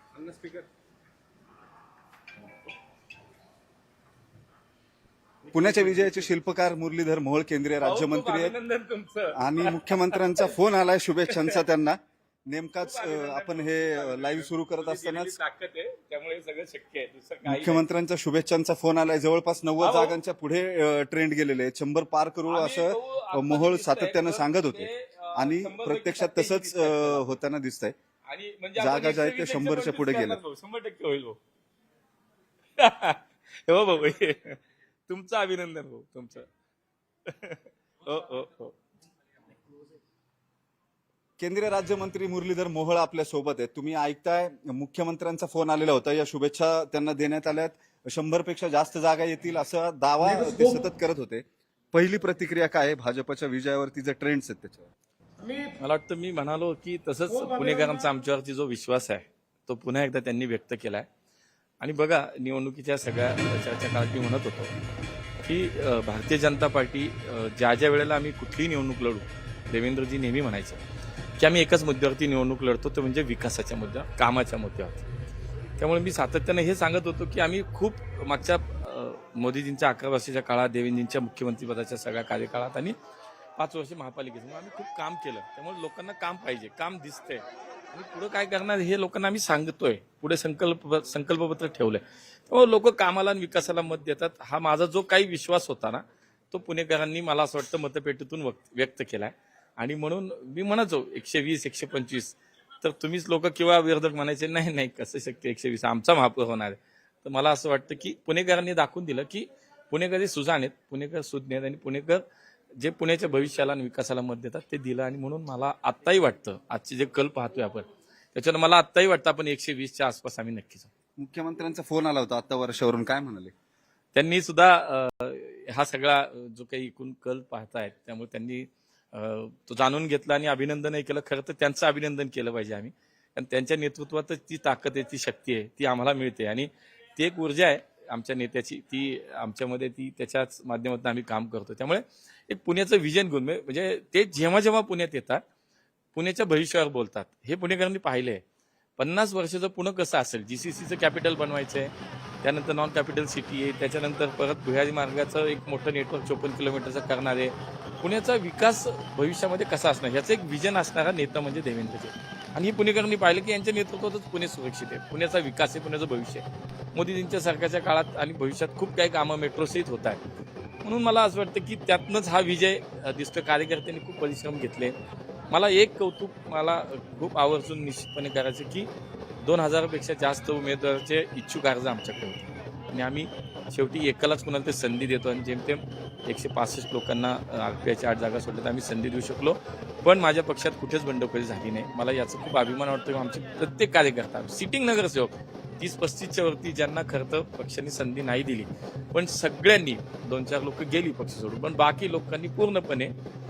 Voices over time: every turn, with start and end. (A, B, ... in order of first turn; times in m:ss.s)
0:00.2-0:00.6 A
0:05.5-0:08.5 B
0:05.6-0:06.1 A
0:07.8-0:10.6 A
0:09.3-0:15.3 B
0:11.3-0:11.6 A
0:12.8-0:17.8 A
0:17.4-0:27.9 B
0:19.8-0:20.2 A
0:22.5-0:27.3 A
0:28.3-0:31.4 A
0:28.8-0:30.4 B
0:32.8-0:36.5 A
0:37.3-0:38.7 A
0:41.4-0:54.9 B
0:55.8-1:01.0 A
1:01.8-1:04.7 A
1:05.4-1:10.8 A
1:11.4-1:15.0 A
1:15.8-1:22.9 A
1:23.6-1:52.2 A
1:52.8-2:00.9 A
2:01.2-2:03.5 B
2:04.1-2:25.4 A
2:26.1-2:28.4 A
2:29.0-2:50.2 A
2:50.8-2:54.9 A
2:55.5-2:58.9 A
2:59.4-3:23.1 A